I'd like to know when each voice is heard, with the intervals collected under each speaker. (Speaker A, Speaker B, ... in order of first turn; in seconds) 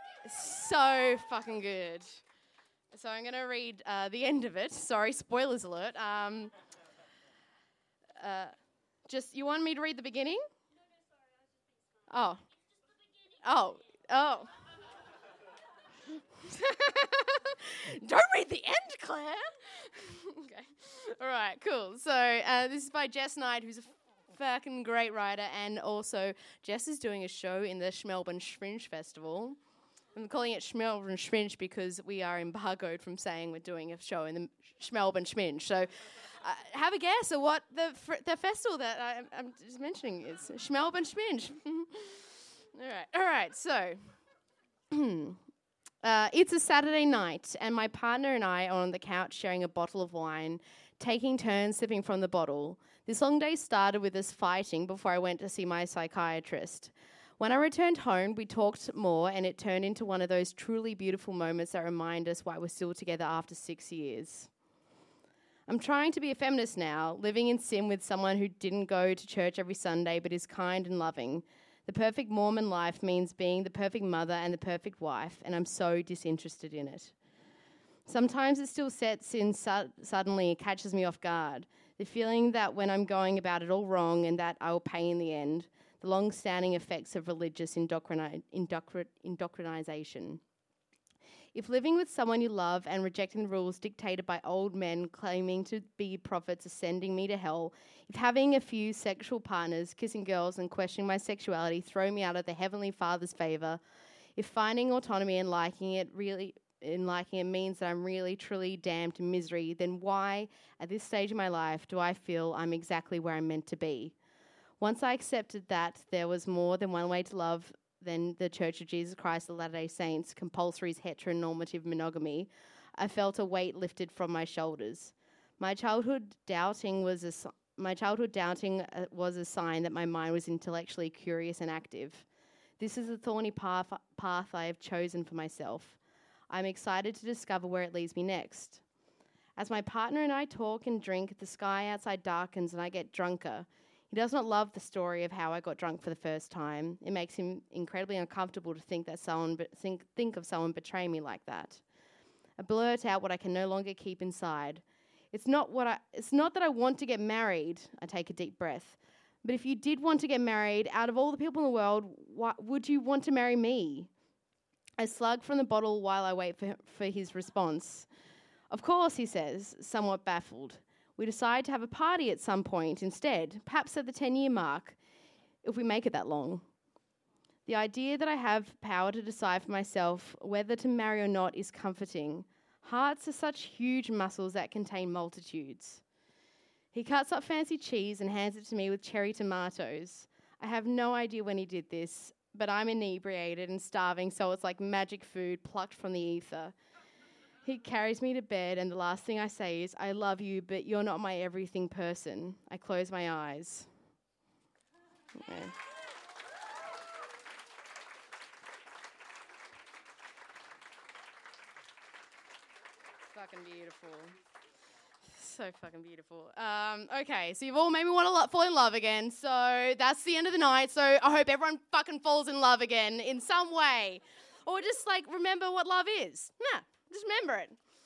Speaker A: 0.2-2.2, 2.9-6.5, 8.2-10.4, 12.1-12.4, 13.4-14.5, 16.4-29.6, 30.1-44.1, 44.9-45.4, 46.0-64.5, 65.7-77.1, 78.0-90.4, 91.5-103.8, 104.3-114.1, 114.8-132.2, 132.8-136.0, 136.5-138.8, 139.6-151.8, 152.6-164.1, 165.0-168.1, 168.7-175.0, 175.6-176.7, 177.7-186.0, 186.9-196.7, 197.6-203.9, 205.3-205.8, 213.3-214.4, 215.2-227.8